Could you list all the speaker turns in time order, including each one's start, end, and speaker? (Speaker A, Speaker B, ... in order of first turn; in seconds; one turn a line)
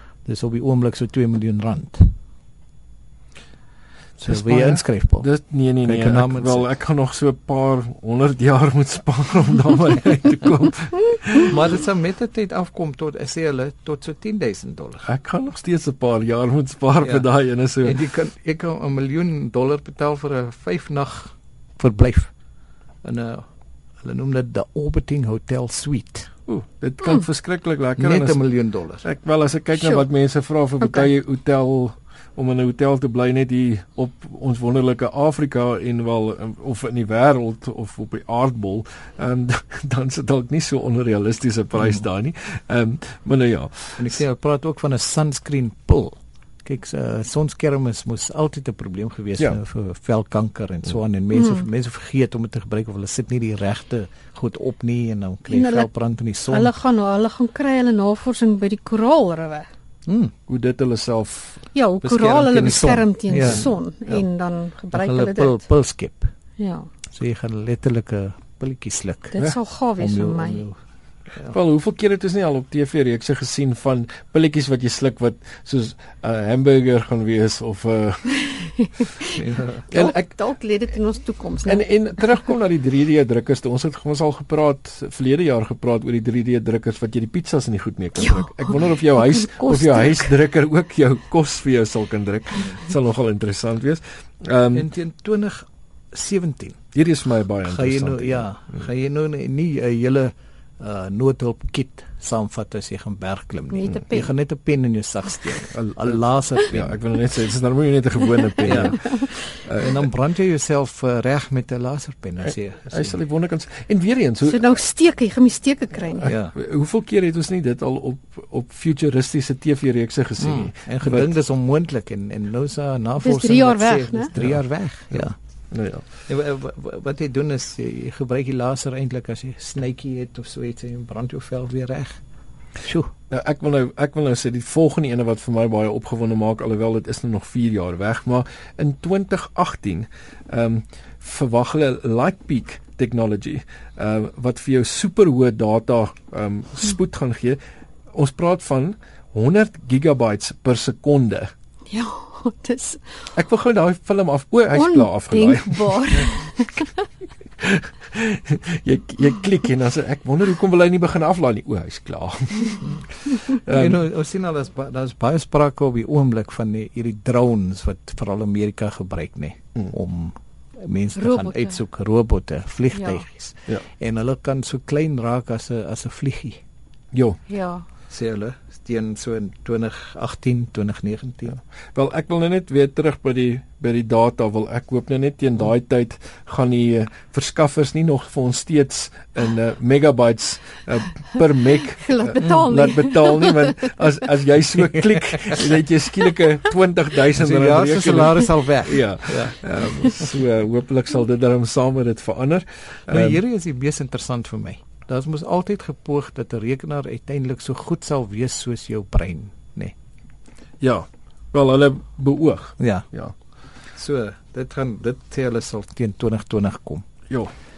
Speaker A: 0.2-2.1
Speaker A: 4.2-5.3
Speaker B: 4.2-11.5
Speaker A: 5.8-6.7
Speaker A: 11.4-15.1
Speaker B: 15.0-18.0
Speaker A: 17.8-22.3
Speaker A: 23.0-23.5
Speaker A: 24.0-26.3
Speaker B: 26.5-28.4
Speaker A: 28.0-29.0
Speaker B: 29.0-44.2
Speaker C: 29.7-30.0
Speaker C: 30.8-31.1
Speaker A: 44.0-56.7
Speaker C: 51.3-51.7
Speaker C: 55.5-55.9
Speaker C: 56.5-59.7
Speaker A: 60.0-60.3
Speaker B: 60.5-61.6
Speaker C: 61.7-65.7
Speaker A: 62.0-64.2
Speaker A: 64.9-66.3
Speaker C: 66.6-66.9
Speaker A: 67.1-69.4
Speaker C: 69.3-70.7
Speaker A: 70.0-70.8
Speaker B: 71.5-78.4
Speaker C: 78.8-79.3
Speaker A: 79.3-79.9
Speaker B: 79.9-80.2
Speaker C: 79.9-81.9
Speaker B: 81.6-94.9
Speaker C: 88.2-90.4
Speaker A: 94.7-96.8
Speaker B: 96.9-98.5
Speaker A: 97.6-107.0
Speaker C: 103.7-104.3
Speaker B: 105.5-110.0
Speaker A: 108.6-109.0
Speaker A: 109.8-113.2
Speaker B: 112.4-114.7
Speaker C: 114.4-116.3
Speaker B: 116.2-121.3
Speaker A: 116.2-116.5
Speaker A: 120.4-125.3
Speaker C: 123.2-124.3
Speaker B: 124.3-126.0
Speaker A: 126.3-132.2
Speaker A: 132.8-133.1
Speaker B: 133.3-147.6
Speaker B: 148.1-151.5
Speaker C: 151.9-153.0
Speaker B: 153.3-156.3
Speaker C: 154.7-156.9
Speaker B: 157.6-164.0
Speaker A: 163.7-176.6
Speaker C: 171.1-171.8
Speaker C: 172.9-173.2
Speaker B: 177.1-177.4
Speaker C: 177.5-177.8
Speaker A: 178.1-181.6
Speaker B: 181.9-203.4
Speaker C: 191.9-193.9
Speaker A: 197.3-200.2
Speaker A: 203.1-209.9
Speaker B: 210.8-213.3
Speaker A: 212.8-213.1
Speaker A: 213.9-217.1